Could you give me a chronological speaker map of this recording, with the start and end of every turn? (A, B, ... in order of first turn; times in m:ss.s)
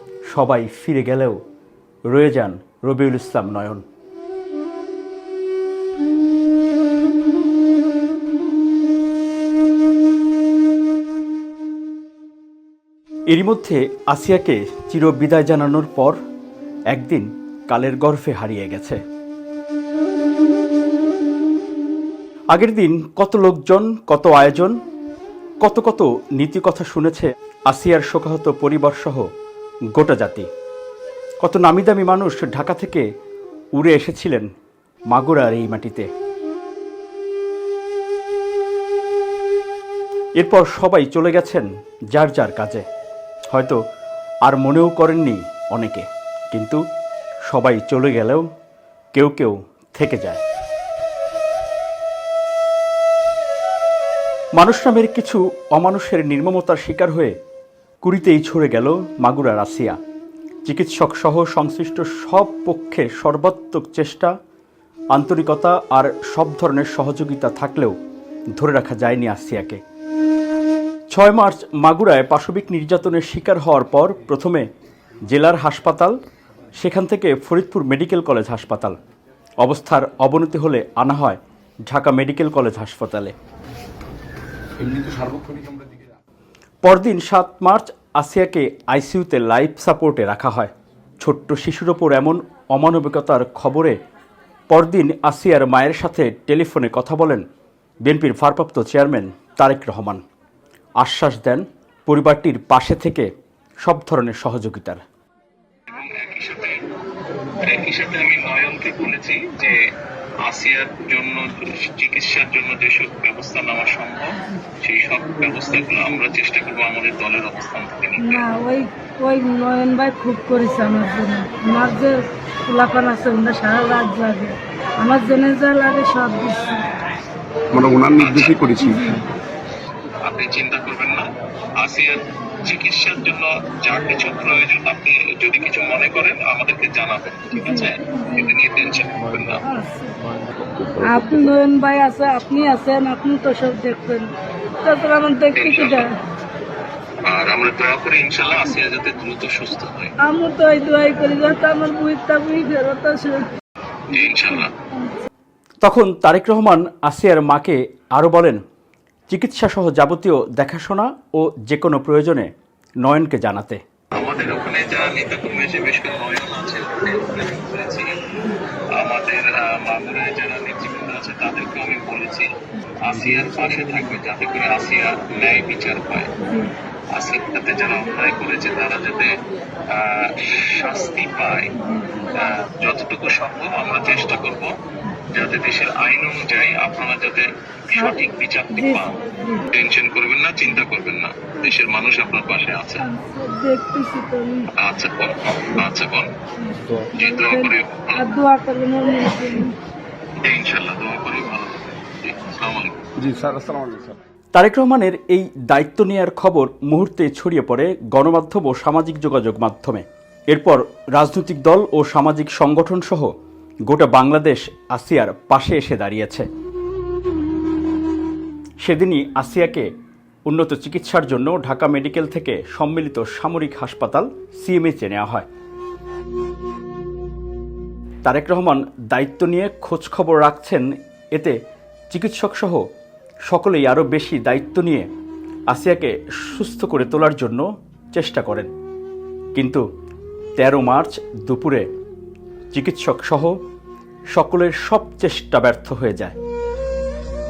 0:00.3-0:01.4 A
0:02.1-0:03.8 A
0:13.3-0:16.2 A
0:16.9-0:19.0 A
0:22.5-0:24.8 A
0:25.6-0:29.3 A
0:29.9-0:30.5 A
0:31.4-0:33.0 A
0:33.7-0:34.5 A
0:35.1-0:36.1 A
0:40.4-0:42.8 A
0:43.5-0:43.8 A
0:44.4-0:46.8 A
0:47.5-0:48.4 A
0:49.1-0:50.4 A
0:54.6-0:57.3 A
0:58.0-1:00.0 A
1:00.6-1:04.3 A
1:05.1-1:07.9 A
1:08.6-1:09.8 A
1:11.1-1:14.7 A
1:15.3-1:16.2 A
1:16.8-1:19.0 A
1:19.6-1:23.3 A
1:24.8-1:25.8 B
1:26.8-1:34.0 A
1:34.7-1:37.4 A
1:38.0-1:40.2 A
1:41.0-1:43.3 A
1:43.8-1:45.0 A
1:45.9-1:46.9 C
1:47.6-1:49.8 C
1:50.4-1:58.5 C
1:58.2-2:06.9 D
2:07.7-2:09.1 B
2:08.1-2:08.8 C
2:08.9-2:09.2 D
2:10.2-2:11.3 C
2:11.8-2:19.6 C
2:17.5-2:18.4 D
2:19.6-2:20.2 D
2:20.9-2:26.2 D
2:25.5-2:26.1 C
2:27.3-2:30.1 C
2:30.2-2:33.5 D
2:34.1-2:34.7 C
2:34.1-2:35.2 D
2:35.8-2:38.6 A
2:39.3-2:42.5 A
2:43.0-2:43.8 A
2:44.2-2:48.2 C
2:48.9-2:56.3 C
2:56.4-2:56.7 D
2:57.1-2:59.4 C
2:59.9-3:04.7 C
3:01.8-3:02.2 D
3:05.3-3:13.1 C
3:07.9-3:08.2 D
3:08.8-3:09.7 D
3:13.0-3:14.7 D
3:14.8-3:16.3 C
3:16.6-3:19.8 D
3:17.1-3:18.2 C
3:20.4-3:23.1 C
3:23.2-3:24.2 B
3:24.5-3:33.3 A
3:33.9-3:36.5 A
3:38.8-3:39.9 A
3:40.5-3:45.5 A
3:48.2-3:51.6 A
3:52.1-3:52.8 A
3:53.5-3:55.1 A
3:55.7-3:58.7 A
3:59.5-3:59.8 A
4:00.6-4:01.8 A
4:02.7-4:03.5 A
4:04.3-4:06.4 A